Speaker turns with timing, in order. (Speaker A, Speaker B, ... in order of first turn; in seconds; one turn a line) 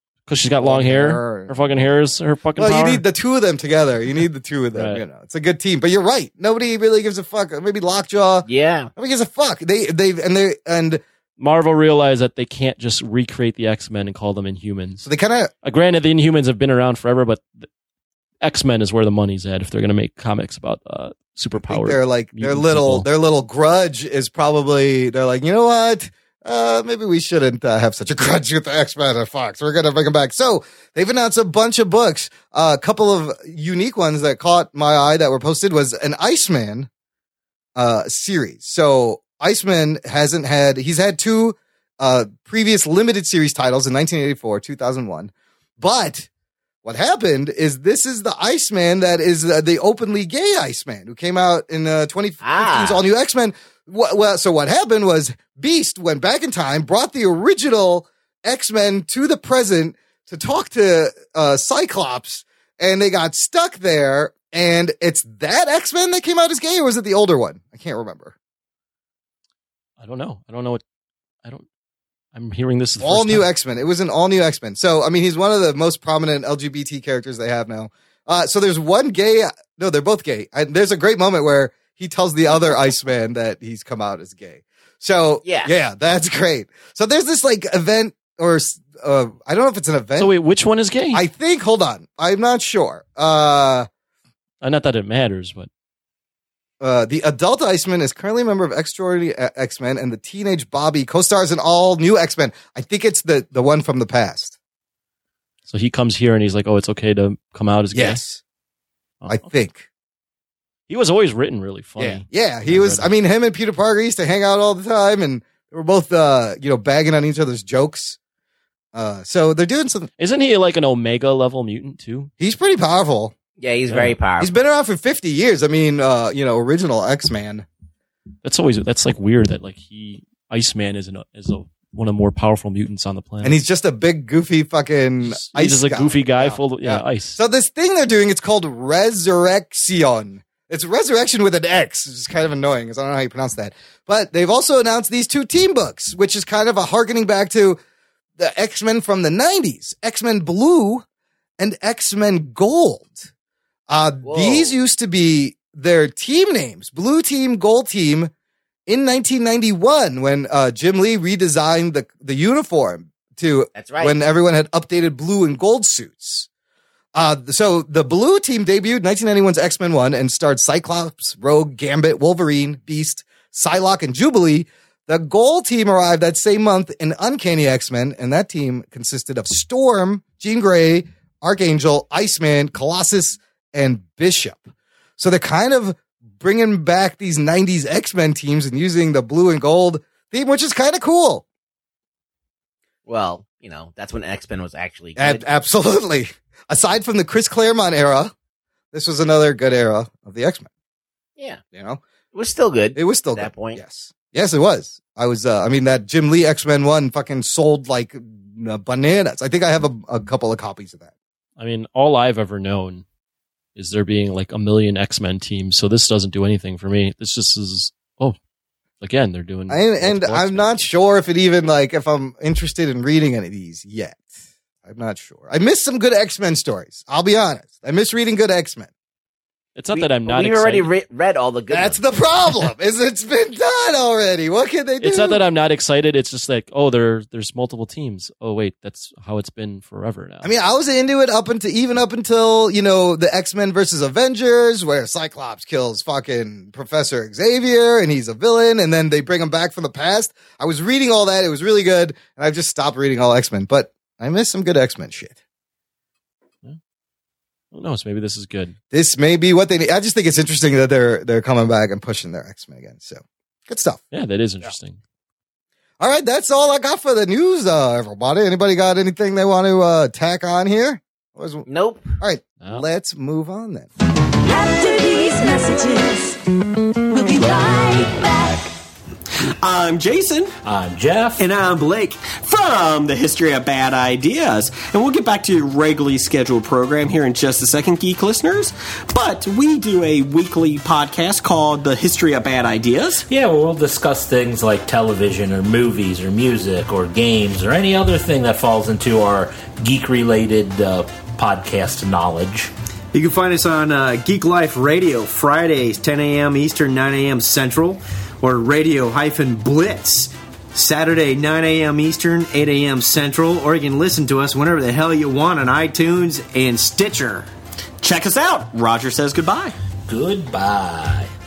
Speaker A: 0.3-3.0
Speaker B: 0.6-1.9
Speaker B: 2.5-11.0
Speaker A: 4.7-5.0
Speaker C: 8.4-8.9
Speaker A: 11.4-15.0
Speaker B: 15.0-15.5
Speaker A: 15.6-17.6
Speaker A: 18.4-23.1
Speaker B: 21.6-36.9
Speaker B: 37.8-46.3
Speaker B: 46.8-68.3
Speaker C: 52.4-53.0
Speaker A: 70.0-70.8
Speaker A: 72.3-73.5
Speaker B: 73.0-90.3
Speaker C: 85.4-85.7
Speaker A: 90.2-91.2
Speaker B: 91.1-93.9
Speaker A: 94.6-95.7
Speaker B: 96.8-104.5
Speaker A: 105.7-108.2
Speaker B: 107.9-108.4
Speaker A: 109.2-109.5
Speaker B: 109.3-109.8
Speaker A: 110.9-113.1
Speaker B: 112.0-118.2
Speaker B: 118.9-120.1
Speaker A: 120.2-122.3
Speaker B: 122.4-123.3
Speaker C: 123.6-124.5
Speaker A: 123.9-124.1
Speaker B: 124.4-127.7
Speaker A: 128.4-133.6
Speaker B: 133.4-147.8
Speaker A: 135.2-137.4
Speaker B: 148.4-151.0
Speaker B: 151.6-153.3
Speaker B: 153.9-158.3
Speaker C: 154.2-154.7
Speaker B: 158.9-166.5
Speaker C: 163.7-164.2
Speaker B: 167.1-191.4
Speaker C: 193.1-195.4
Speaker B: 195.2-198.3
Speaker B: 198.9-200.7
Speaker B: 201.7-202.0
Speaker C: 202.3-203.8
Speaker B: 202.9-211.1
Speaker A: 211.6-213.0
Speaker A: 213.8-218.3
Speaker A: 219.0-220.9
Speaker B: 219.7-224.2
Speaker B: 224.8-228.9
Speaker A: 229.8-230.9
Speaker C: 229.9-232.0
Speaker B: 231.7-235.4
Speaker A: 235.0-240.5
Speaker B: 240.4-255.3
Speaker A: 257.7-258.8
Speaker B: 258.9-264.0
Speaker A: 264.1-265.0
Speaker B: 266.0-271.6
Speaker C: 271.6-272.1
Speaker B: 272.2-273.9
Speaker D: 274.4-276.4
Speaker D: 277.1-278.7
Speaker E: 279.5-280.5
Speaker F: 280.6-281.4
Speaker G: 281.4-282.2
Speaker E: 282.2-293.2
Speaker F: 293.3-302.7
Speaker G: 303.1-317.5
Speaker E: 318.0-319.7
Speaker F: 320.1-321.3